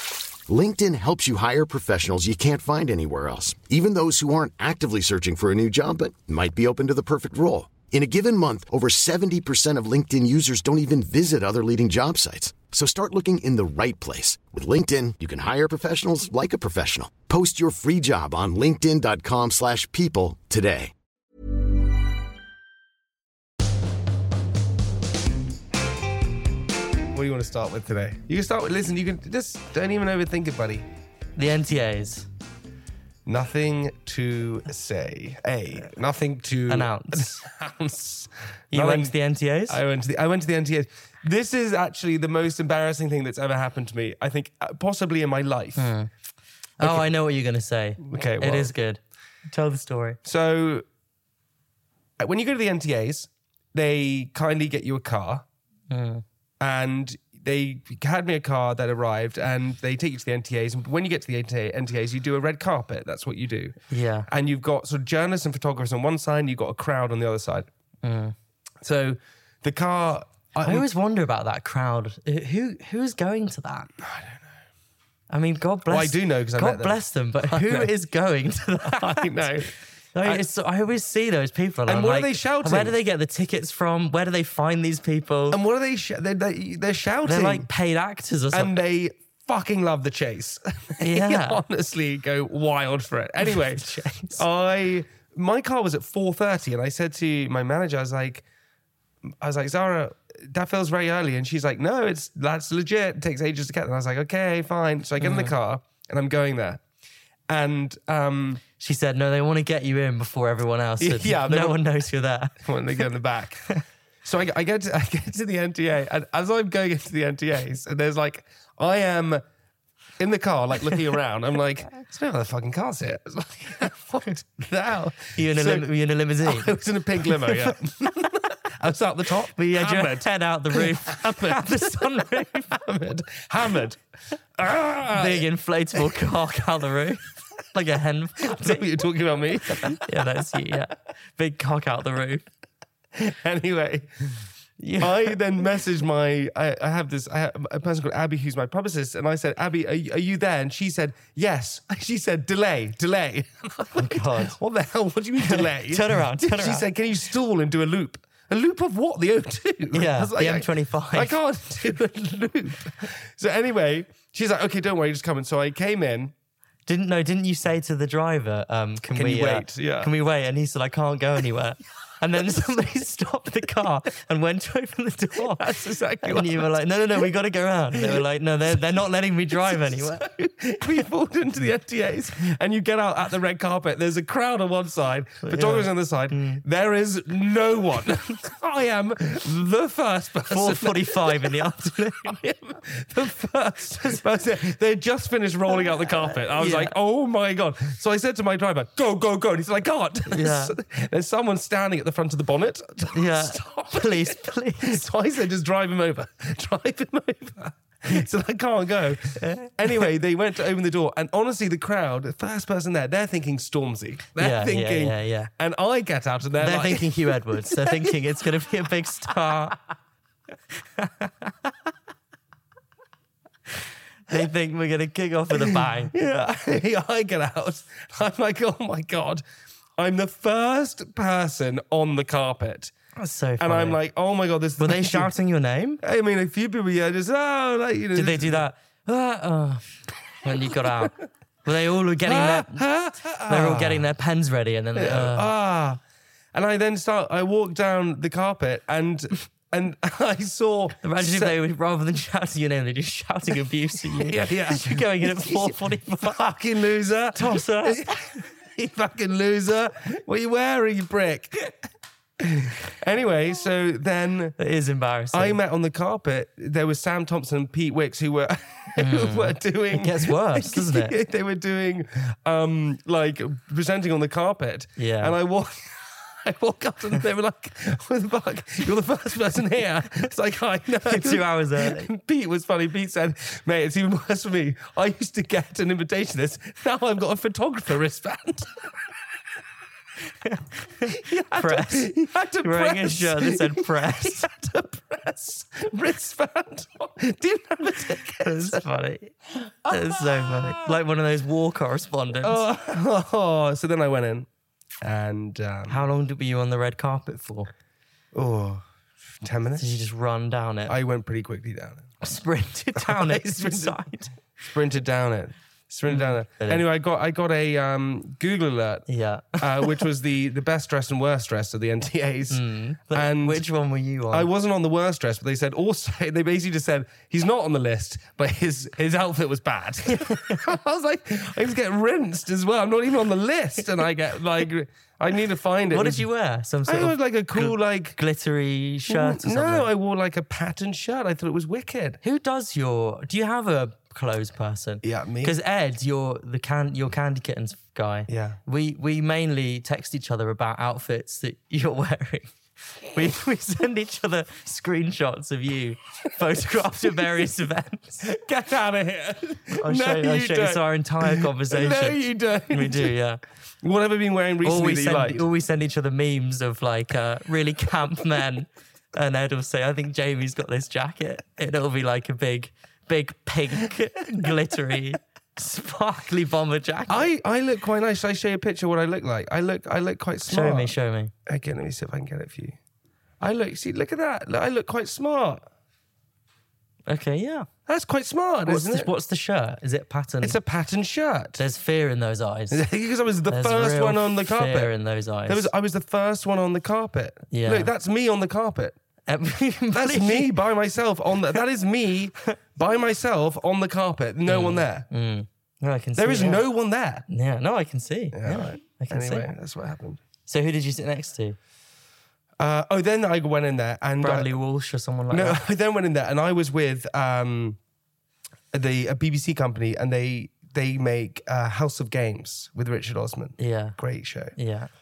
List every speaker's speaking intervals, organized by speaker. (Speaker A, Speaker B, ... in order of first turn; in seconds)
Speaker A: 0.5-20.9
Speaker B: 27.1-30.9, 33.2-39.1, 39.7-45.9, 46.8-47.0, 48.0-48.7, 50.2-50.8, 52.2-55.4, 56.6-63.8, 64.3-67.7, 68.8-70.9, 74.0-74.5, 75.9-77.9, 78.8-79.7, 81.9-83.0, 85.5-87.7, 88.5-98.4, 99.4-106.8, 107.5-108.6, 111.0-111.8, 112.6-113.6, 114.2-119.4, 120.2-125.9, 126.4-134.0, 134.6-136.2, 138.4-140.2, 143.1-144.3, 145.0-166.3, 169.1-170.1, 175.3-176.7, 177.9-178.2, 179.6-191.7, 192.2-218.2, 225.6-229.4, 230.0-232.9, 233.6-235.3, 236.0-238.7, 242.2-244.0, 244.9-246.0, 246.5-251.6, 254.2-261.7, 262.4-264.6, 265.3-288.9, 291.1-298.8, 299.5-301.0, 302.4-304.5, 305.0-306.0, 308.3-308.9, 309.4-309.9, 310.9-312.1, 312.9-314.0, 314.6-319.1, 319.6-323.6, 324.3-336.2, 336.9-338.2, 339.1-342.2, 345.0-345.6, 348.3-348.6, 358.2-363.1, 363.8-365.4, 377.1-380.9, 381.5-382.8, 383.4-385.7, 387.9-389.1, 390.4-391.6, 392.7-394.9, 395.5-398.9, 399.9-405.1, 406.2-407.2, 408.3-410.2, 412.6-414.5, 415.3-417.8, 418.7-424.5
Speaker C: 31.4-32.3, 36.7-37.4, 38.7-39.8, 45.8-46.1, 46.8-50.2, 55.9-56.2, 63.9-64.3, 68.0-68.3, 70.6-73.9, 75.3-79.5, 80.1-85.6, 87.2-88.7, 91.0-91.6, 93.5-94.4, 105.2-105.5, 108.8-112.6, 125.3-126.7, 127.3-127.7, 129.5-132.7, 135.1-138.9, 139.8-142.5, 144.8-145.3, 153.9-154.6, 155.4-156.9, 159.9-161.3, 166.8-180.2, 185.4-186.6, 190.5-192.4, 196.6-196.9, 200.3-200.8, 203.1-205.0, 209.4-209.7, 214.4-215.5, 216.6-219.8, 221.0-221.7, 224.3-226.2, 233.2-234.0, 234.8-236.0, 238.1-239.9, 240.4-242.9, 243.4-245.5, 251.0-256.4, 257.3-258.3, 264.6-265.6, 268.9-271.1, 275.0-275.4, 281.1-282.1, 290.4-294.5, 297.9-299.3, 299.9-302.6, 305.9-307.7, 309.8-310.9, 312.2-314.4, 316.1-316.8, 319.1-320.0, 322.5-324.5, 330.1-330.6, 335.9-339.9, 342.2-358.3, 359.7-363.4, 364.6-377.3, 380.4-381.3, 387.1-387.7, 388.6-390.6, 391.6-392.8, 393.5-395.7, 397.5-397.9, 399.3-400.5, 404.5-406.6, 407.3-409.5, 410.4-411.6, 414.2-415.6, 423.6-424.0, 424.5-424.9